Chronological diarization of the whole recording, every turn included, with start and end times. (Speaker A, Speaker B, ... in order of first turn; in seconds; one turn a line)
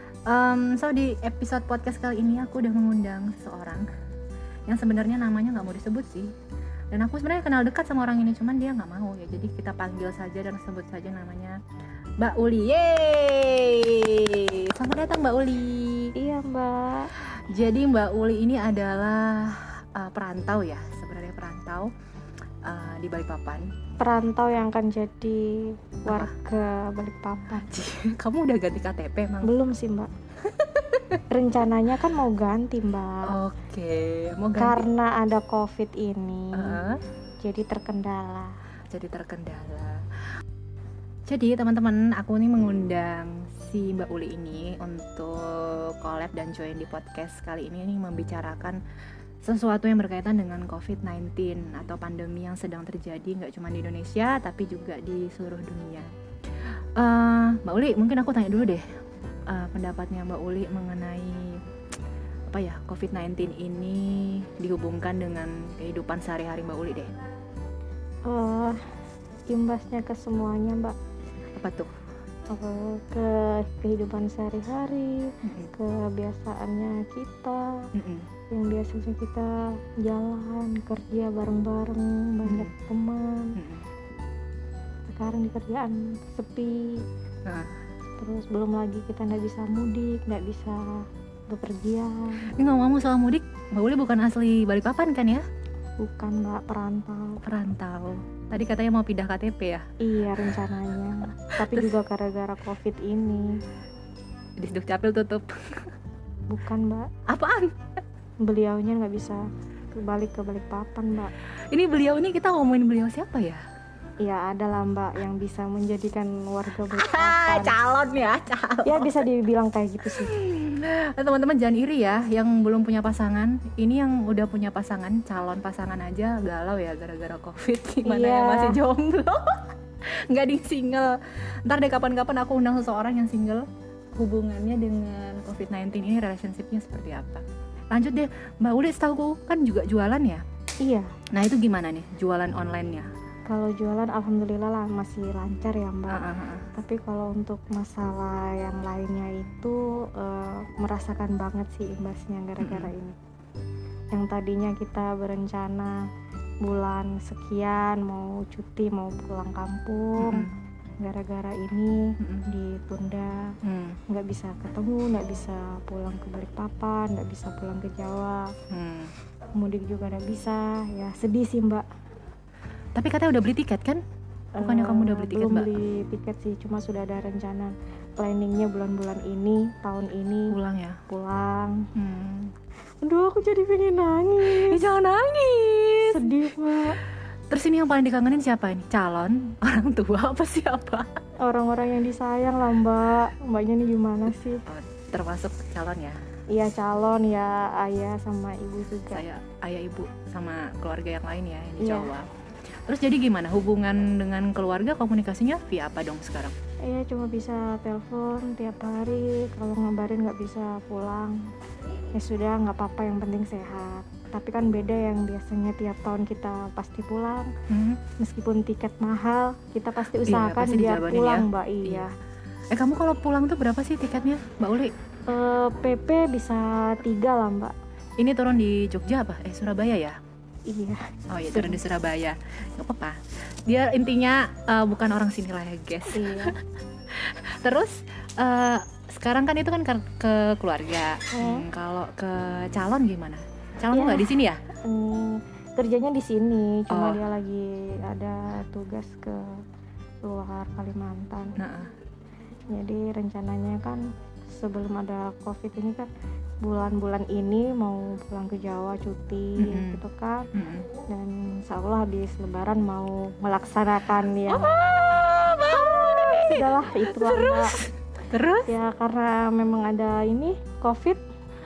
Speaker A: 0.3-3.9
Speaker A: 4.7-6.3
Speaker A: 6.9-11.6
Speaker A: 12.2-16.1
Speaker B: 16.2-17.1
Speaker A: 17.2-21.9
Speaker A: 22.7-23.7
Speaker B: 24.0-27.7
Speaker A: 26.1-26.3
Speaker A: 27.6-29.6
Speaker B: 29.4-30.1
Speaker A: 30.4-31.2
Speaker B: 31.3-33.2
Speaker A: 33.3-34.9
Speaker B: 34.6-36.8
Speaker A: 36.5-37.0
Speaker B: 37.4-38.5
Speaker A: 38.9-40.0
Speaker A: 41.3-48.8
Speaker A: 49.4-58.8
Speaker A: 59.5-61.6
Speaker A: 62.5-67.1
Speaker B: 68.3-68.8
Speaker B: 69.5-71.0
Speaker A: 71.6-71.9
Speaker B: 72.5-77.8
Speaker A: 75.4-75.7
Speaker A: 78.0-78.3
Speaker B: 78.5-83.5
Speaker A: 82.5-82.7
Speaker A: 83.6-83.9
Speaker B: 85.1-87.0
Speaker A: 87.5-87.8
Speaker B: 88.2-90.8
Speaker B: 91.5-92.5
Speaker A: 92.6-95.4
Speaker B: 96.0-97.4
Speaker A: 97.5-99.8
Speaker B: 100.0-103.5
Speaker A: 101.6-101.9
Speaker A: 104.6-105.9
Speaker B: 106.5-107.1
Speaker A: 107.3-107.8
Speaker B: 108.4-111.3
Speaker A: 111.7-113.6
Speaker B: 114.2-117.8
Speaker A: 116.8-119.2
Speaker B: 118.8-120.3
Speaker A: 120.0-140.4
Speaker B: 128.1-128.8
Speaker B: 140.8-141.1
Speaker A: 141.3-143.1
Speaker B: 143.5-153.2
Speaker A: 146.1-146.7
Speaker A: 152.6-152.9
Speaker B: 154.1-155.9
Speaker B: 156.6-160.5
Speaker A: 160.2-160.6
Speaker B: 161.0-163.5
Speaker A: 162.2-162.5
Speaker A: 163.6-164.0
Speaker B: 164.1-168.5
Speaker A: 168.7-169.1
Speaker B: 169.6-171.8
Speaker A: 173.0-174.0
Speaker B: 174.6-180.6
Speaker A: 174.6-175.7
Speaker A: 180.5-181.0
Speaker B: 181.1-181.8
Speaker A: 182.0-182.5
Speaker B: 183.0-184.8
Speaker A: 184.4-186.4
Speaker B: 186.1-187.0
Speaker A: 187.5-191.1
Speaker B: 191.4-194.6
Speaker A: 194.7-196.2
Speaker B: 196.5-199.2
Speaker A: 199.1-202.3
Speaker B: 201.8-202.1
Speaker A: 202.9-206.5
Speaker B: 206.9-211.4
Speaker B: 212.2-217.5
Speaker A: 217.7-218.0
Speaker B: 218.2-222.1
Speaker A: 220.2-222.1
Speaker A: 222.7-224.9
Speaker B: 225.3-227.7
Speaker A: 228.2-230.2
Speaker B: 230.7-231.8
Speaker A: 231.3-244.6
Speaker B: 236.1-236.6
Speaker B: 241.3-241.7
Speaker B: 243.9-249.4
Speaker A: 246.9-247.2
Speaker B: 250.2-251.6
Speaker A: 251.6-251.9
Speaker B: 252.7-256.1
Speaker B: 256.6-260.5
Speaker A: 259.6-260.0
Speaker A: 260.5-260.9
Speaker B: 261.1-264.7
Speaker A: 264.5-268.7
Speaker B: 265.8-267.7
Speaker B: 268.7-271.2